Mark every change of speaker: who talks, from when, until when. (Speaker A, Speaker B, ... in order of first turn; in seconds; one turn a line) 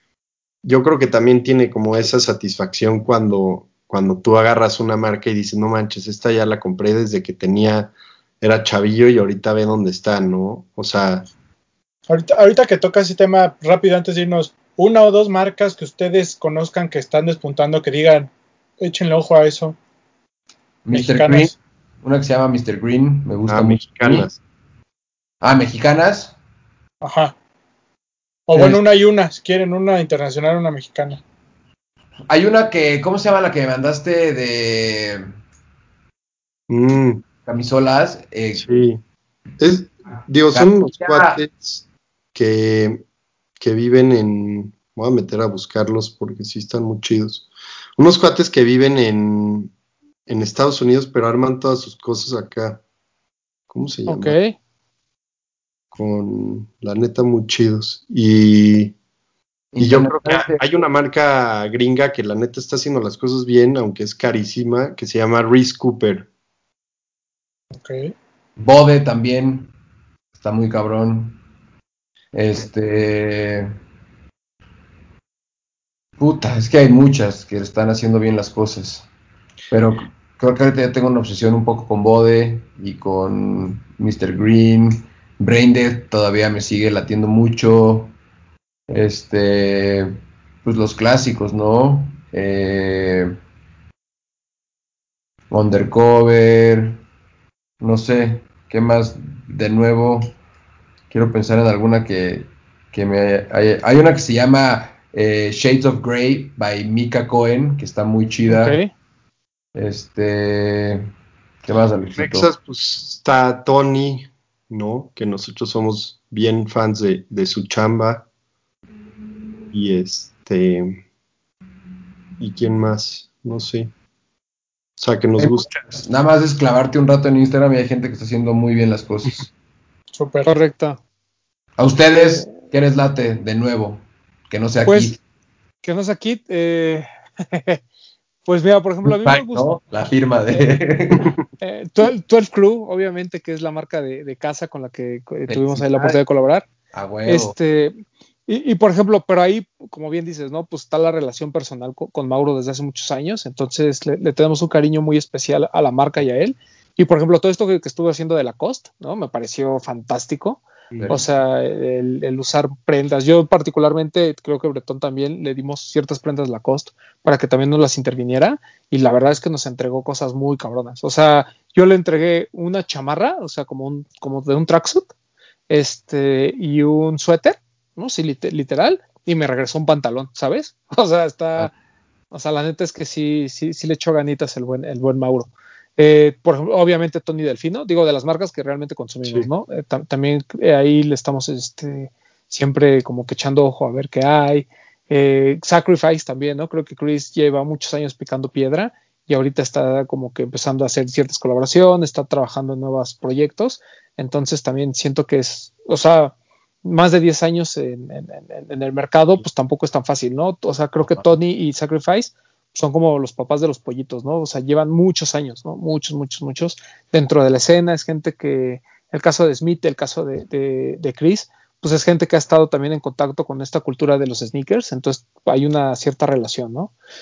Speaker A: 0.6-11.3
Speaker B: 12.1-19.8
Speaker C: 20.9-24.3
Speaker B: 20.9-21.5
Speaker A: 23.5-24.4
Speaker C: 25.4-26.4
Speaker B: 27.0-27.4
Speaker B: 28.5-31.2
Speaker C: 28.5-28.8
Speaker C: 32.3-35.3
Speaker A: 36.7-37.2
Speaker C: 37.5-38.6
Speaker A: 38.5-39.0
Speaker A: 39.6-41.8
Speaker C: 40.5-41.4
Speaker A: 42.4-43.0
Speaker A: 43.6-49.7
Speaker A: 50.3-52.8
Speaker A: 53.7-54.4
Speaker D: 54.1-54.6
Speaker A: 55.9-58.9
Speaker C: 59.7-60.6
Speaker A: 59.8-66.3
Speaker B: 67.7-68.1
Speaker C: 68.6-69.7
Speaker C: 70.4-71.4
Speaker C: 72.3-73.7
Speaker C: 76.2-79.1
Speaker C: 79.7-88.1
Speaker C: 88.9-93.3
Speaker C: 95.5-97.0
Speaker C: 97.8-100.4
Speaker C: 101.1-108.8
Speaker D: 108.5-108.9
Speaker C: 109.7-111.1
Speaker C: 111.6-112.5
Speaker A: 112.2-118.2
Speaker A: 119.7-121.0
Speaker A: 122.4-123.9
Speaker A: 125.0-125.7
Speaker C: 125.4-129.4
Speaker B: 130.1-130.5
Speaker D: 130.4-131.0
Speaker C: 131.8-135.2
Speaker D: 134.8-135.2
Speaker D: 135.8-137.8
Speaker D: 138.4-139.7
Speaker C: 139.1-141.3
Speaker D: 141.6-146.7
Speaker C: 145.5-146.2
Speaker C: 146.9-147.6
Speaker D: 147.2-175.1
Speaker A: 160.9-161.2
Speaker C: 160.9-161.2
Speaker D: 175.7-181.7
Speaker D: 182.3-226.9